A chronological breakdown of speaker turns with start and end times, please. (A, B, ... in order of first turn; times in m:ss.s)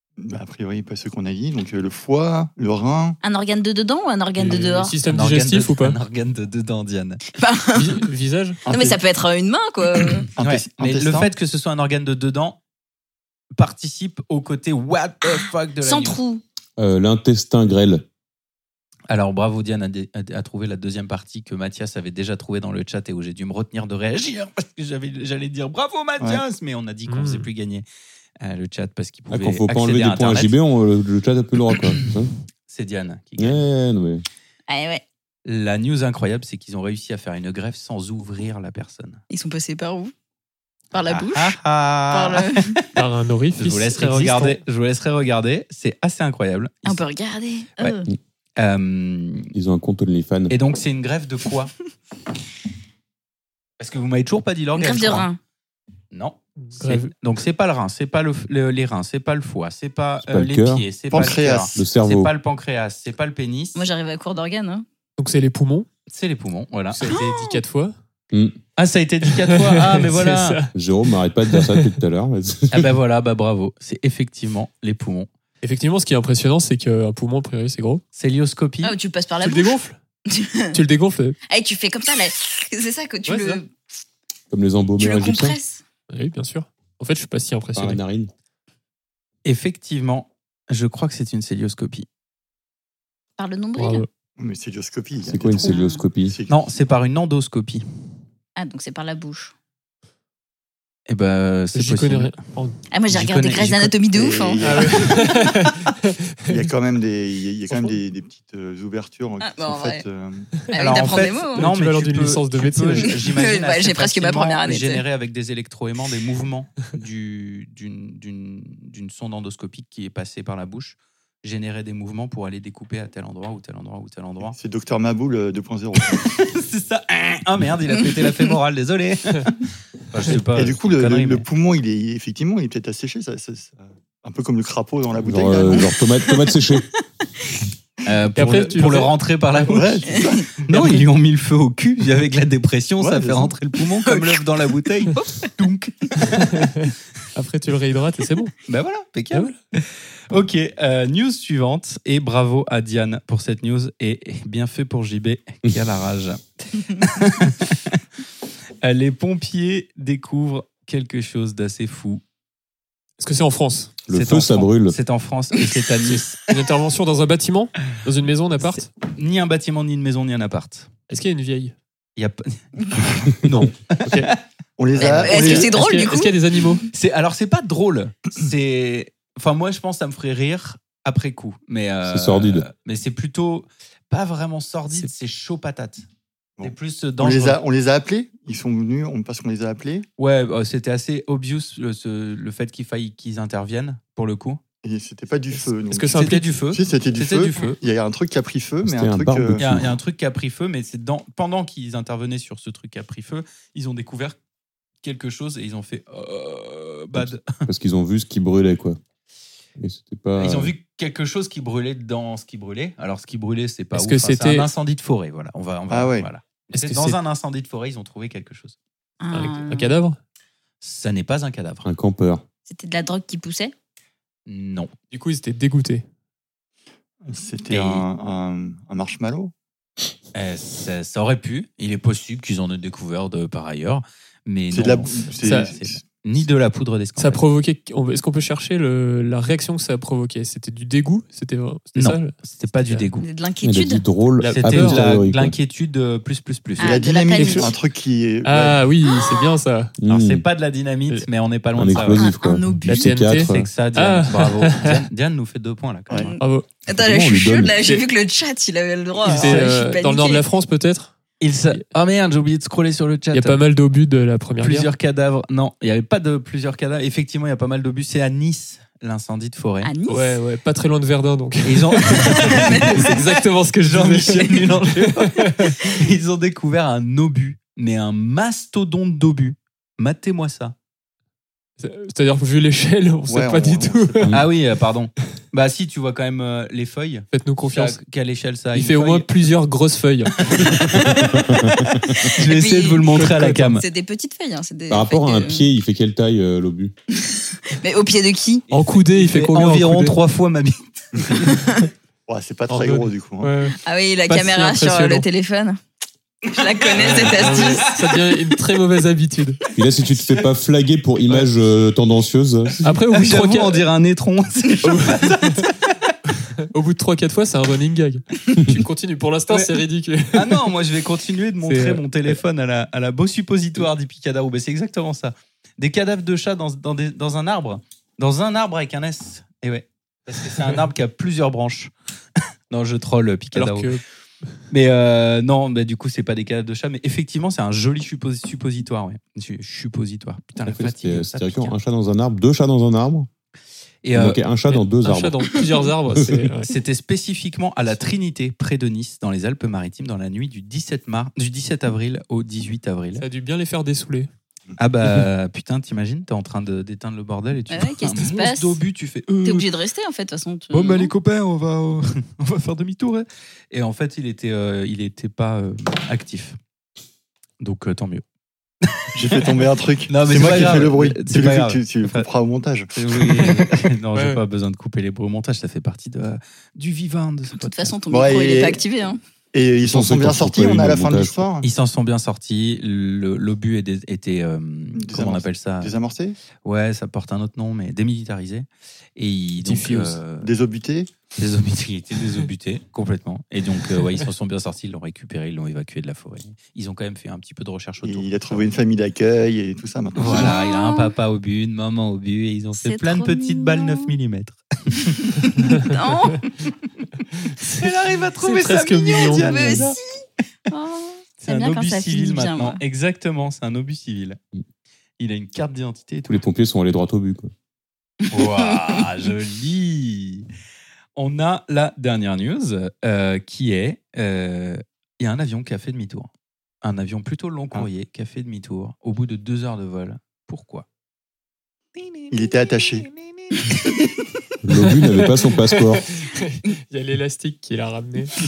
0:00.2-0:03.2 A
0:03.2-0:05.0 B
0:04.4-0:06.0 C
0:05.1-0:07.2 D
0:07.3-0:08.0 B
0:07.7-0:08.6 C
0:08.7-0:09.0 A
0:08.7-0:10.3 B
0:10.3-0:11.3 A
0:10.4-0:12.6 D
0:13.6-0:16.2 D
0:15.8-0:16.4 B
0:16.8-0:18.0 E
0:19.1-0:27.8 D
0:27.1-0:27.5 C
0:28.4-0:30.6 D
0:29.3-0:32.3 E
0:32.7-0:33.6 D
0:33.4-0:34.2 E
0:34.7-0:35.0 B
0:35.4-0:39.2 D
0:39.3-0:40.1 B
0:40.9-0:41.6 B
0:41.0-0:42.8 D
0:42.1-0:42.8 B
0:42.9-0:44.6 C
0:43.6-0:47.0 D
0:46.8-0:48.1 B
0:48.6-0:49.5 D
0:49.5-0:50.6 E
0:50.5-0:51.7 D
0:53.8-0:55.3 D
0:54.7-0:55.4 B
0:56.1-1:03.8 D
0:56.6-0:57.1 C
1:00.2-1:00.8 E
1:01.1-1:01.8 A
1:01.7-1:02.3 E
1:03.7-1:04.8 B
1:05.2-1:05.9 C
1:06.1-1:07.3 D
1:06.9-1:07.9 C
1:08.3-1:08.6 E
1:08.8-1:10.6 D
1:09.3-1:12.0 C
1:10.7-1:12.9 E
1:12.7-1:15.3 D
1:15.6-1:18.0 C
1:18.1-1:19.0 D
1:18.8-1:20.8 B
1:19.4-1:20.0 C
1:20.7-1:21.4 C
1:21.5-1:23.7 B
1:23.3-1:23.6 C
1:24.5-1:25.6 E
1:25.0-1:25.8 B
1:26.1-1:28.0 C
1:27.7-1:28.3 E
1:29.4-1:32.1 D
1:33.4-1:34.0 B
1:33.8-1:34.1 C
1:34.4-1:36.6 A
1:35.3-1:36.3 E
1:35.6-1:36.0 B
1:36.5-1:37.8 D
1:38.6-1:39.5 B
1:41.1-1:42.3 D
1:41.7-1:42.8 C
1:42.9-1:45.0 B
1:43.1-1:44.0 D
1:44.1-1:45.5 A
1:44.6-1:46.6 C
1:46.5-1:50.6 A
1:49.4-1:50.0 B
1:50.7-1:51.7 B
1:50.7-2:04.6 D
1:51.5-1:53.2 C
1:53.0-1:55.0 B
2:04.4-2:06.3 A
2:06.2-2:11.4 D
2:10.5-2:15.9 A
2:15.2-2:16.9 E
2:18.0-2:26.6 D
2:18.4-2:19.8 C
2:19.7-2:20.6 A
2:23.0-2:23.5 A
2:24.1-2:24.3 B
2:25.1-2:25.5 B
2:26.6-2:28.5 C
2:28.7-2:38.0 D
2:38.8-2:42.2 D
2:43.2-2:43.9 C
2:44.1-2:45.0 E
2:44.1-2:46.4 D
2:46.3-2:48.9 C
2:48.6-2:50.9 D
2:51.1-2:51.7 C
2:52.2-2:54.4 D
2:53.5-2:54.3 C
2:54.8-2:55.8 A
2:55.0-2:55.7 D
2:55.1-2:56.4 B
2:55.3-2:56.9 C
2:56.9-3:06.0 D
3:02.0-3:02.6 E
3:06.6-3:10.0 A
3:06.6-3:07.6 D
3:10.2-3:14.6 D
3:14.8-3:19.6 A
3:15.9-3:16.5 C
3:16.1-3:17.8 D
3:18.8-3:19.9 E
3:19.6-3:24.4 D
3:25.0-3:27.6 D
3:27.1-3:29.0 E
3:29.8-3:30.7 E
3:30.4-3:38.8 D
3:33.9-3:34.7 C
3:35.9-3:36.3 A
3:36.7-3:37.2 C
3:39.2-3:39.9 B
3:39.3-3:40.2 C
3:40.8-3:41.9 D
3:41.8-3:42.4 E
3:42.7-3:43.7 B
3:44.4-3:44.9 D
3:45.1-3:46.0 C
3:47.2-3:49.5 A
3:47.7-3:48.0 D
3:50.3-3:57.4 D
3:54.7-3:56.0 A
3:55.4-3:55.7 C
3:57.2-4:03.1 C
4:01.9-4:03.2 D
4:03.2-4:04.0 B
4:03.6-4:05.6 E
4:04.4-4:05.0 C
4:04.5-4:07.0 D
4:06.8-4:07.8 B
4:06.8-4:08.8 A
4:07.3-4:07.7 C
4:08.4-4:09.9 C
4:10.0-4:10.4 E
4:10.1-4:12.3 D
4:11.8-4:13.7 E
4:12.0-4:13.2 B
4:12.9-4:15.0 C
4:13.3-4:16.4 D
4:16.2-4:20.4 B
4:16.4-4:16.7 C
4:17.0-4:17.8 E
4:19.2-4:21.1 C
4:19.2-4:19.7 D
4:21.4-4:23.6 D
4:23.3-4:24.9 C
4:24.6-4:29.9 D
4:29.8-4:30.4 B
4:30.1-4:36.0 C
4:31.6-4:33.2 D
4:32.4-4:33.0 B
4:33.8-4:40.7 D
4:41.8-4:44.3 C
4:43.3-4:44.3 A
4:44.3-4:49.3 D
4:47.3-4:48.0 C
4:48.7-4:50.7 C
4:50.5-4:51.4 D
4:50.9-4:52.3 E
4:52.2-4:53.8 D
4:52.4-4:53.1 B
4:53.1-4:53.8 C
4:53.7-4:55.6 B
4:54.9-4:56.9 E
4:57.2-4:58.6 B
4:58.7-5:00.2 C
4:58.7-5:01.4 D
5:01.1-5:01.5 A
5:02.3-5:03.5 A
5:02.7-5:05.2 C
5:03.8-5:05.8 B
5:06.4-5:07.9 B
5:06.6-5:07.8 D
5:07.1-5:09.6 C
5:09.8-5:12.9 E
5:10.1-5:10.4 D
5:12.8-5:13.8 C
5:13.1-5:16.1 D
5:14.8-5:15.6 C
5:16.6-5:20.7 C
5:19.5-5:31.9 D
5:21.6-5:22.0 C
5:32.7-5:33.9 D
5:33.5-5:34.0 C
5:34.7-5:41.7 D
5:40.6-5:43.3 E
5:44.0-5:44.4 D
5:44.1-5:45.5 E
5:44.7-5:46.7 C
5:46.1-5:46.5 E
5:46.7-5:53.2 D
5:53.2-5:54.3 C
5:54.8-5:59.7 D
5:57.7-5:58.8 B
5:59.4-6:01.1 B
6:00.7-6:06.6 D
6:07.6-6:08.2 D
6:09.0-6:09.5 D
6:09.1-6:13.7 A
6:10.1-6:12.2 D
6:12.9-6:17.9 D
6:14.1-6:14.4 C
6:17.5-6:19.2 B
6:18.1-6:18.8 A
6:19.5-6:21.7 A
6:19.8-6:21.4 E
6:21.6-6:26.0 D
6:25.0-6:26.4 A
6:26.6-6:30.5 D
6:29.6-6:30.2 C
6:30.4-6:31.1 A
6:31.4-6:38.7 D
6:38.0-6:40.5 A
6:40.2-6:45.7 D
6:40.3-6:41.1 B
6:42.8-6:44.1 B
6:45.4-6:46.5 B
6:47.6-6:50.0 D
6:48.4-6:49.9 C
6:49.3-6:50.0 B
6:50.7-6:52.8 B
6:51.4-6:54.4 D
6:55.2-6:56.4 D
6:56.3-6:57.5 E
6:58.3-7:00.5 D
7:01.2-7:06.3 D
7:06.8-7:10.8 D
7:12.0-7:12.3 D
7:12.3-7:13.1 A
7:13.1-7:13.7 D
7:14.6-7:16.0 E
7:14.9-7:15.5 C
7:16.2-7:18.4 C